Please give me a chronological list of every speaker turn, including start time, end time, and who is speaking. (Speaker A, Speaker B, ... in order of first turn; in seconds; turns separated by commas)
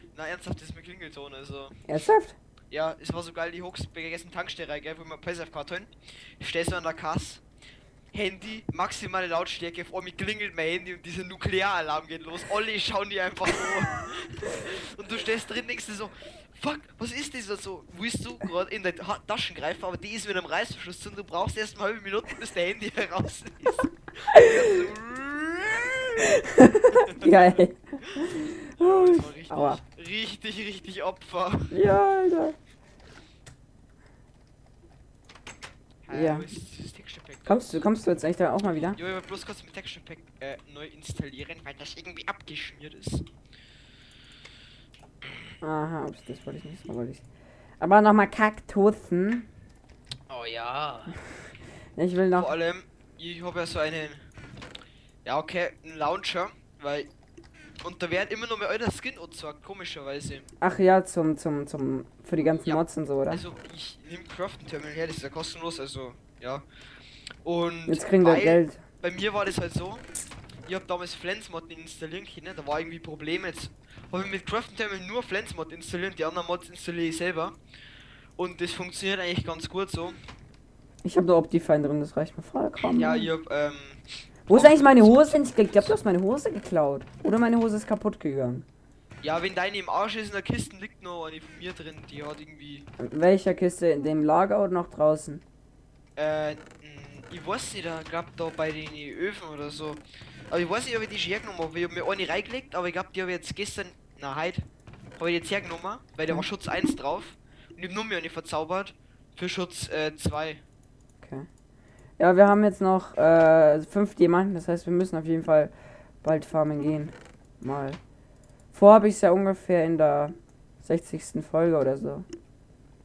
Speaker A: 0.1-1.9, Speaker B: 1.9-2.4, Speaker A: 2.7-7.4, Speaker A: 8.1-26.2, Speaker B: 24.3-24.8, Speaker B: 26.2-29.8, Speaker A: 26.9-27.5, Speaker A: 28.1-31.8, Speaker B: 31.7-32.5, Speaker A: 36.0-37.9, Speaker B: 36.1-36.5, Speaker B: 37.4-39.0, Speaker A: 38.9-43.2, Speaker B: 45.6-47.2, Speaker B: 47.8-49.5, Speaker A: 50.3-51.1, Speaker B: 52.0-52.5, Speaker A: 52.3-54.3, Speaker A: 55.2-57.1, Speaker A: 57.8-60.5, Speaker B: 60.6-63.4, Speaker A: 62.4-66.6, Speaker A: 67.4-70.1, Speaker B: 67.9-68.8, Speaker A: 70.7-77.6, Speaker A: 78.4-80.2, Speaker B: 81.0-83.3, Speaker A: 82.8-86.0, Speaker B: 84.5-88.7, Speaker A: 89.2-92.8, Speaker B: 93.0-95.4, Speaker A: 96.2-104.7, Speaker A: 105.2-110.6, Speaker B: 111.2-111.5, Speaker B: 112.2-118.0, Speaker B: 118.7-122.2